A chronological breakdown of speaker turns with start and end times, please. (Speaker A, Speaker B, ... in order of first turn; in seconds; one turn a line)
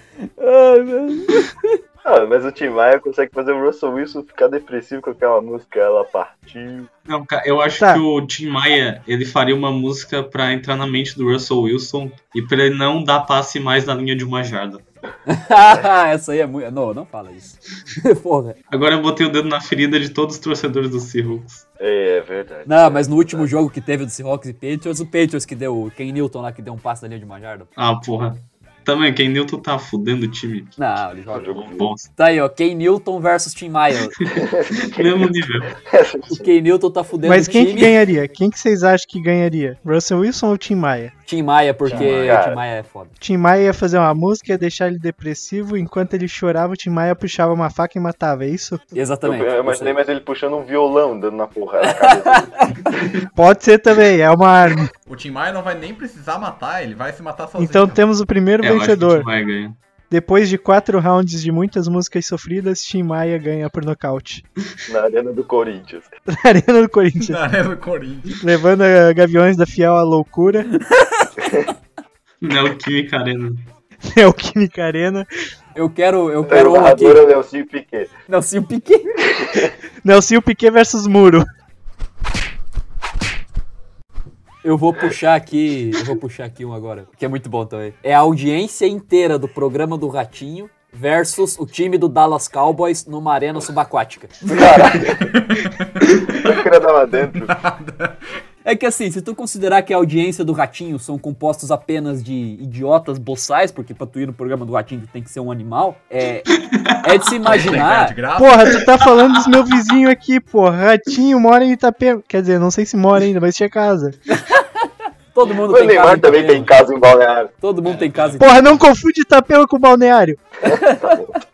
Speaker A: 0.4-1.7
Speaker B: 2.0-6.9
Speaker C: 7.0-14.8
Speaker A: 15.3-18.6
Speaker C: 18.7-21.6
Speaker B: 21.8-23.5
Speaker A: 22.6-27.7
Speaker C: 27.8-30.8
Speaker A: 30.8-34.1
Speaker B: 31.3-31.9
Speaker C: 31.7-32.1
Speaker B: 34.3-36.5
Speaker C: 34.9-35.7
Speaker A: 36.3-38.0
Speaker D: 37.2-41.1
Speaker A: 41.3-43.1
Speaker B: 41.8-42.6
Speaker C: 41.9-42.4
Speaker D: 43.2-48.8
Speaker A: 48.9-50.0
Speaker B: 49.2-52.7
Speaker A: 51.9-52.9
Speaker D: 53.3-54.9
Speaker E: 55.1-58.0
Speaker D: 57.6-59.3
Speaker C: 58.6-59.8
Speaker D: 60.1-64.4
Speaker B: 64.9-66.1
Speaker D: 66.3-67.4
Speaker E: 67.2-68.4
Speaker D: 68.4-70.7
Speaker A: 70.9-71.3
Speaker B: 71.4-71.7
Speaker C: 72.4-73.7
Speaker D: 74.0-75.3
Speaker A: 75.8-77.2
Speaker B: 76.5-78.1
Speaker A: 78.3-79.1
Speaker B: 79.3-79.7
Speaker D: 80.0-81.5
Speaker A: 84.6-94.5
Speaker B: 94.4-95.3
Speaker E: 95.1-96.6
Speaker B: 96.4-97.5
Speaker E: 97.4-98.2
Speaker A: 98.6-108.2
Speaker E: 107.5-108.8
Speaker D: 108.4-114.2
Speaker A: 114.3-116.8
Speaker B: 115.6-117.5
Speaker A: 117.6-118.6
Speaker C: 117.8-118.4
Speaker D: 118.4-120.4
Speaker B: 120.6-121.4
Speaker A: 120.7-121.2